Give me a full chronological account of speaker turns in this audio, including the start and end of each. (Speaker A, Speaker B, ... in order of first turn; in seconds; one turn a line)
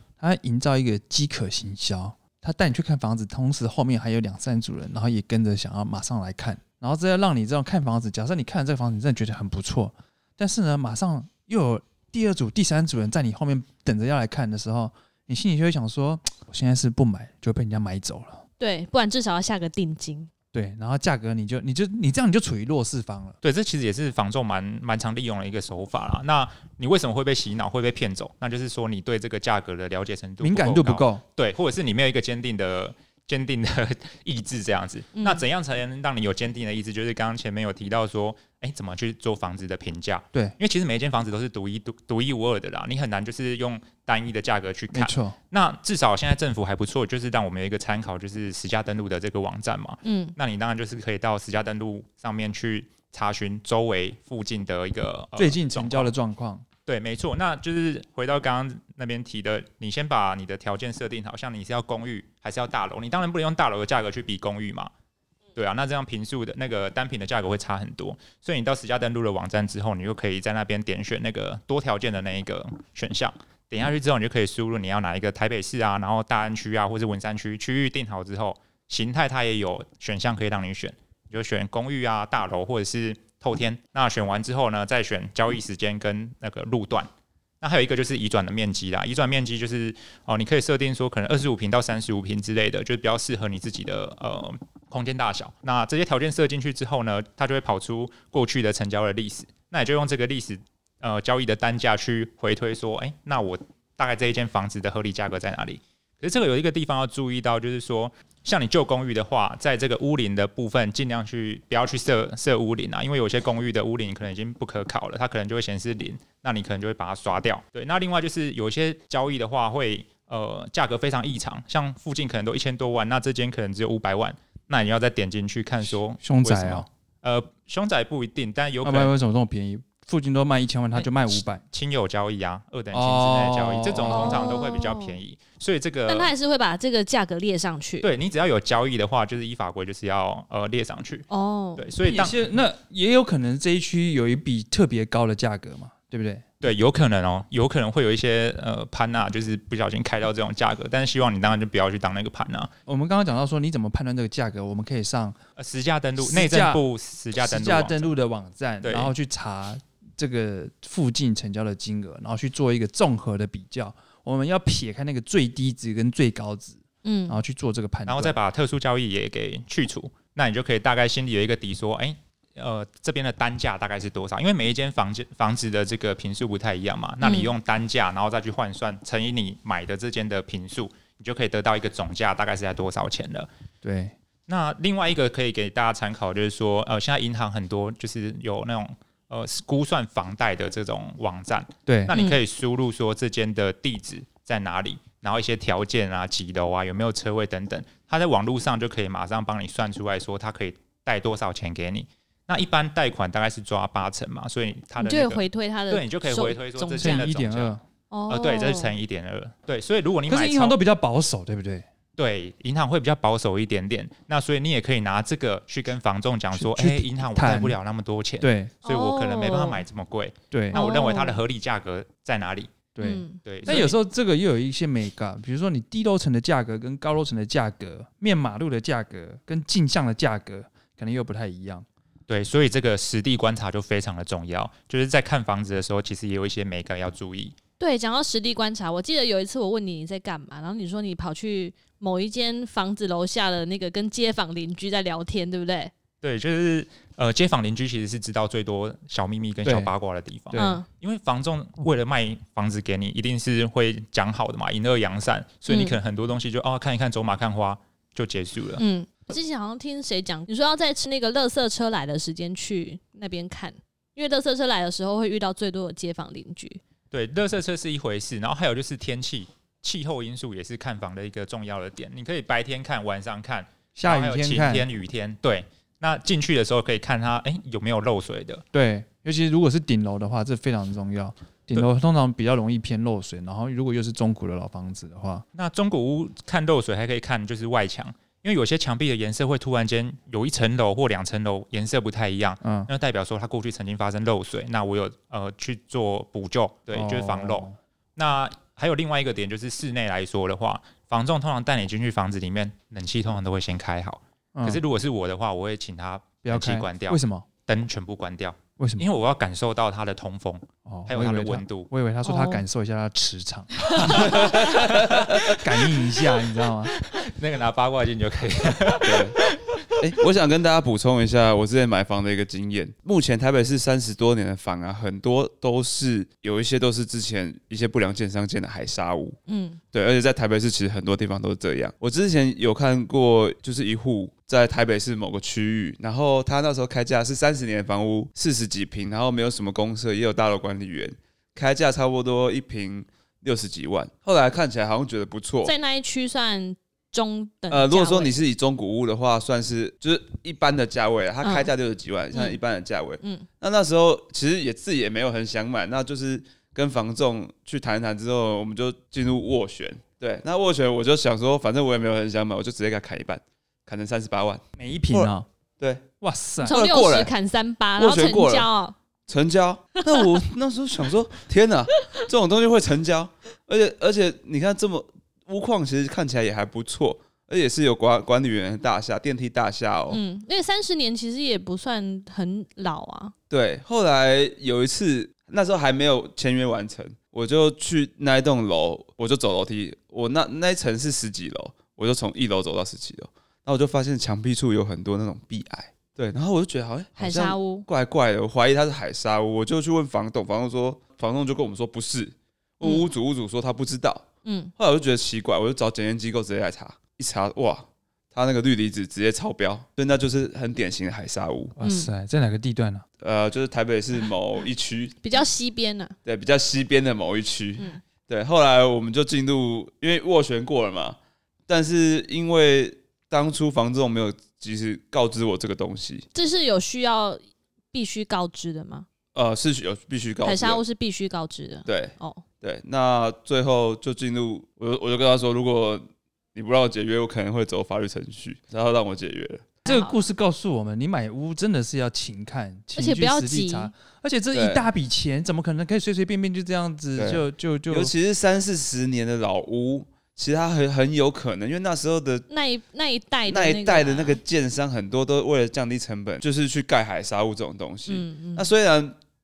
Speaker A: 0.2-18.4
Speaker B: 18.6-20.3
Speaker A: 20.5-23.4
Speaker C: 23.4-56.1
Speaker A: 30.4-31.2
Speaker B: 35.1-35.4
Speaker A: 44.9-45.4
Speaker B: 50.0-50.4
Speaker A: 55.4-56.6
Speaker C: 56.9-64.9
Speaker C: 65.5-87.1
Speaker C: 87.6-129.1
Speaker A: 126.2-126.9
Speaker A: 128.8-131.6
Speaker C: 130.9-136.3
Speaker A: 132.9-134.6
Speaker B: 134.0-135.2
Speaker B: 136.1-138.1
Speaker C: 138.0-141.2
Speaker B: 141.3-141.9
Speaker C: 141.8-142.6
Speaker A: 142.0-146.4
Speaker C: 146.6-152.7
Speaker A: 152.9-155.3
Speaker C: 155.6-158.1
Speaker A: 156.2-156.8
Speaker A: 157.3-168.4
Speaker C: 158.8-159.1
Speaker B: 167.0-167.4
Speaker C: 168.1-183.5
Speaker B: 177.2-177.5
Speaker A: 183.8-184.1
Speaker C: 184.5-207.7
Speaker A: 191.8-192.1
Speaker B: 192.1-192.4
Speaker B: 205.0-207.3
Speaker A: 207.0-207.8
Speaker B: 208.1-208.9
Speaker C: 208.3-210.8
Speaker A: 210.3-211.8
Speaker C: 212.2-222.8
Speaker A: 216.5-217.8
Speaker A: 218.4-218.7
Speaker B: 218.8-219.8
Speaker A: 220.5-220.8
Speaker B: 220.7-221.4
Speaker A: 222.9-231.8
Speaker B: 223.0-223.4
Speaker C: 223.4-224.0
Speaker C: 232.3-237.6
Speaker B: 237.8-245.9
Speaker C: 246.2-258.8
Speaker A: 249.6-249.9
Speaker A: 250.5-250.8
Speaker B: 250.5-250.9
Speaker B: 255.7-256.0
Speaker B: 258.8-266.8
Speaker C: 267.1-278.6
Speaker A: 273.9-274.9
Speaker A: 278.7-285.4
Speaker C: 285.5-311.9
Speaker A: 292.6-292.9
Speaker A: 296.9-297.8
Speaker A: 304.5-304.8
Speaker A: 306.4-307.4
Speaker A: 308.8-309.1
Speaker A: 310.9-314.5
Speaker B: 312.2-312.6
Speaker C: 313.9-315.7
Speaker B: 314.2-314.8
Speaker A: 315.4-316.9
Speaker C: 316.8-320.0
Speaker D: 319.0-319.4
Speaker D: 320.0-329.4
Speaker B: 329.4-329.8
Speaker D: 329.9-345.7
Speaker B: 345.6-348.4
Speaker D: 347.7-366.1
Speaker B: 351.4-351.7
Speaker B: 352.3-352.6
Speaker B: 353.2-353.5
Speaker A: 364.8-365.4
Speaker A: 366.2-366.8
Speaker D: 366.6-367.4
Speaker B: 366.6-368.9
Speaker D: 367.9-368.7
Speaker D: 369.3-380.2
Speaker B: 369.9-370.4
Speaker B: 371.9-372.2
Speaker B: 380.1-383.3
Speaker D: 383.5-404.2
Speaker B: 397.2-397.9
Speaker B: 402.8-403.1
Speaker B: 404.4-404.7
Speaker D: 404.8-411.8
Speaker A: 411.8-413.0
Speaker B: 411.8-412.1
Speaker D: 413.2-415.4
Speaker B: 415.2-416.1
Speaker D: 416.2-426.3
Speaker B: 426.3-429.1
Speaker D: 429.3-430.9
Speaker B: 430.4-432.4
Speaker D: 431.8-439.7
Speaker B: 439.8-440.1
Speaker A: 439.9-448.1
Speaker B: 442.9-443.9
Speaker D: 444.5-444.9
Speaker D: 447.1-452.5
Speaker B: 452.5-454.4
Speaker D: 453.4-459.2
Speaker B: 458.1-458.7